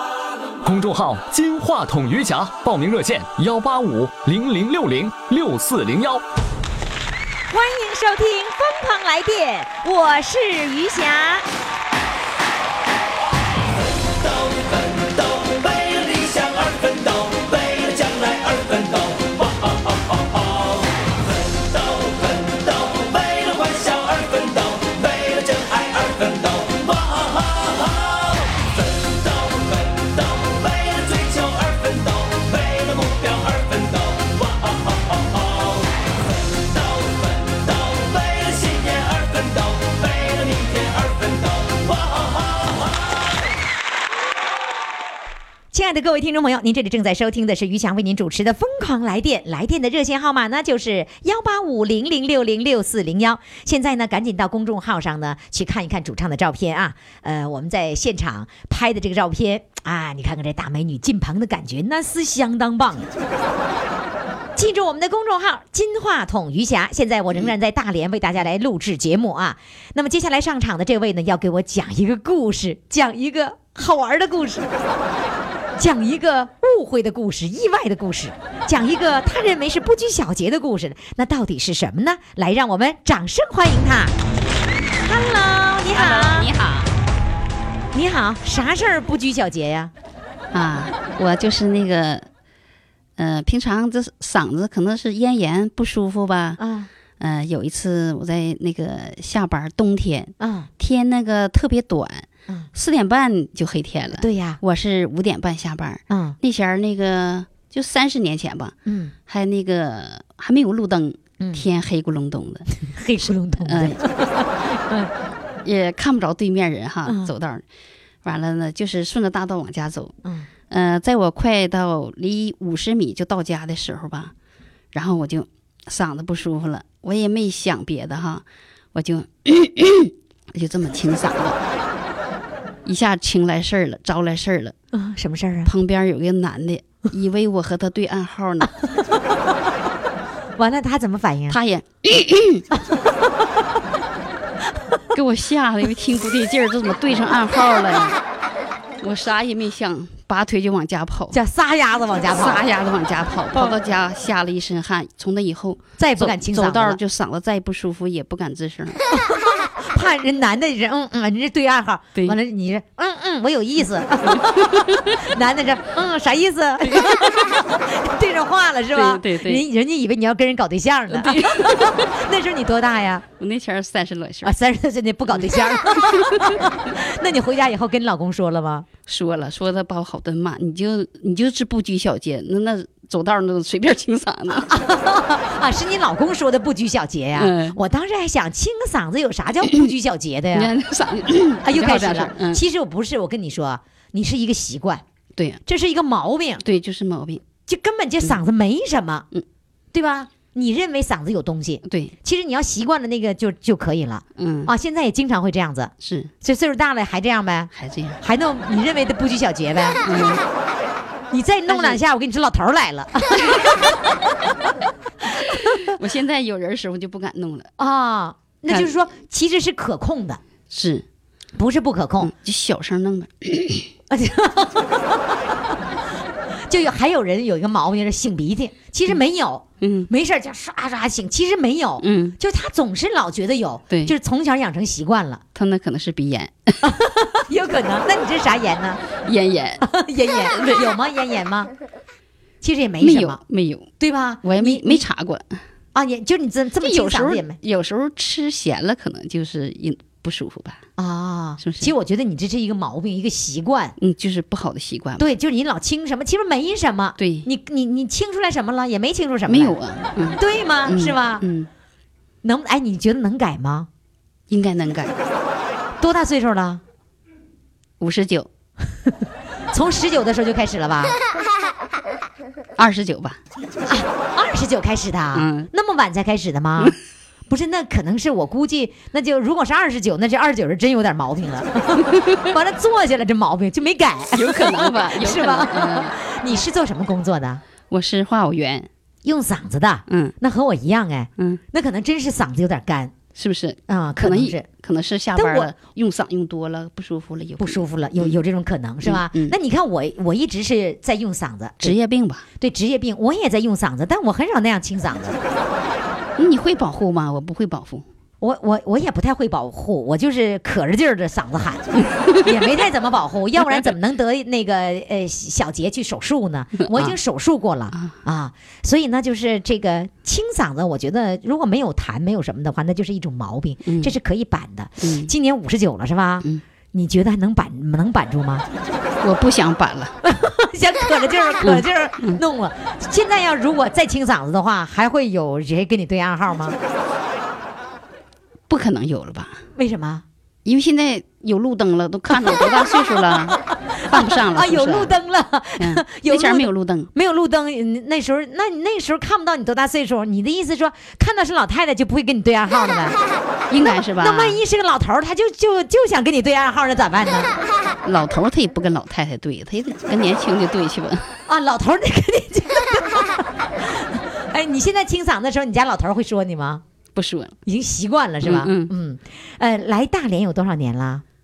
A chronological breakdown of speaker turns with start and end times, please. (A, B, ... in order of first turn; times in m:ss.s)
0:00.6-0:06.2 A
0:07.5-0:11.5 B
0:14.0-0:35.9 C
0:36.4-0:43.0 C
0:45.7-1:03.1 B
1:04.6-1:14.7 B
1:15.8-1:24.2 B
1:25.0-1:26.5 B
1:25.9-1:26.9 D
1:27.9-1:29.9 B
1:30.5-1:32.3 D
1:33.2-1:36.6 D
1:36.6-1:36.9 B
1:37.2-1:48.8 D
1:40.4-1:40.7 B
1:44.2-1:44.6 B
1:46.1-1:46.4 B
1:48.8-1:49.1 B
1:49.3-1:52.7 D
1:51.4-1:51.6 B
1:52.8-1:55.1 B
1:53.6-1:54.0 D
1:55.6-1:57.6 D
1:57.0-1:57.3 B
1:58.2-2:00.2 D
2:00.7-2:04.3 D
2:04.9-2:11.6 D
2:12.8-2:14.8 D
2:14.9-2:15.7 B
2:15.6-2:18.7 D
2:20.6-2:21.6 B
2:21.5-2:22.7 D
2:22.7-2:23.7 B
2:25.1-2:28.2 D
2:29.0-2:31.4 D
2:31.3-2:32.6 B
2:32.3-2:39.0 D
2:36.0-2:37.0 B
2:39.1-2:53.2 B
2:44.2-2:45.2 D
2:46.8-2:47.5 D
2:48.9-2:49.6 D
2:51.1-2:52.1 D
2:53.4-2:54.5 D
2:54.4-2:58.9 B
2:55.3-2:56.6 D
2:59.1-3:04.8 D
3:04.7-3:10.7 B
3:07.4-3:07.8 D
3:10.5-3:12.6 D
3:11.6-3:15.0 B
3:15.4-3:15.6 D
3:15.7-3:16.6 B
3:16.6-3:17.4 D
3:17.7-3:19.3 B
3:19.9-3:30.0 B
3:21.9-3:22.1 D
3:24.4-3:24.7 D
3:26.0-3:26.3 D
3:27.7-3:28.2 D
3:30.0-3:30.4 D
3:31.3-3:34.0 B
3:31.7-3:32.0 D
3:35.3-3:37.7 D
3:35.5-3:35.8 B
3:37.8-3:40.4 B
3:40.7-3:41.0 D
3:41.6-3:42.3 B
3:42.2-3:43.9 D
3:44.1-3:45.4 B
3:46.7-3:55.4 B
3:49.8-3:50.1 D
3:52.0-3:52.4 D
3:53.9-3:54.2 D
3:55.6-3:57.0 D
3:56.8-3:59.0 B
3:59.2-4:00.9 D
3:59.8-4:01.7 B
4:02.6-4:03.4 B
4:03.0-4:03.9 D
4:04.0-4:05.0 B
4:04.4-4:05.6 D
4:05.9-4:07.6 B
4:06.8-4:10.8 D
4:11.0-4:14.0 B
4:11.6-4:11.9 D
4:14.0-4:15.2 D
4:15.2-4:19.8 B
4:17.2-4:17.5 D
4:19.5-4:21.7 D
4:20.4-4:21.4 B
4:22.4-4:23.9 B
4:24.5-4:25.1 D
4:26.0-4:26.8 B
4:28.0-4:28.5 D
4:29.7-4:31.2 B
4:32.8-4:33.4 D
4:33.9-4:37.0 B
4:35.3-4:35.7 D
4:37.5-4:47.6 B
4:42.0-4:42.5 D
4:44.3-4:46.2 D
4:47.9-4:48.9 D
4:49.2-4:53.1 B
4:50.1-4:50.4 D
4:53.4-4:58.4 D
4:53.9-4:54.7 B
4:55.4-4:55.7 B
4:57.6-5:02.0 B
4:59.0-4:59.6 D
5:01.8-5:02.5 D
5:02.6-5:05.4 B
5:06.4-5:08.1 D
5:08.4-5:28.6 B
5:12.0-5:12.5 D
5:16.8-5:17.2 D
5:23.9-5:24.1 D
5:25.0-5:25.3 D
5:29.2-5:30.2 D
5:30.2-5:36.8 B
5:31.6-5:32.4 D
5:38.7-5:39.6 D
5:39.8-5:40.2 B
5:40.6-5:45.1 D
5:42.3-5:53.2 B
5:45.8-5:47.1 D
5:53.7-5:54.6 D
5:53.8-5:57.5 B
5:58.0-6:01.3 D
6:01.5-6:06.8 B
6:07.2-6:07.6 D
6:07.7-6:11.2 B
6:08.4-6:08.9 D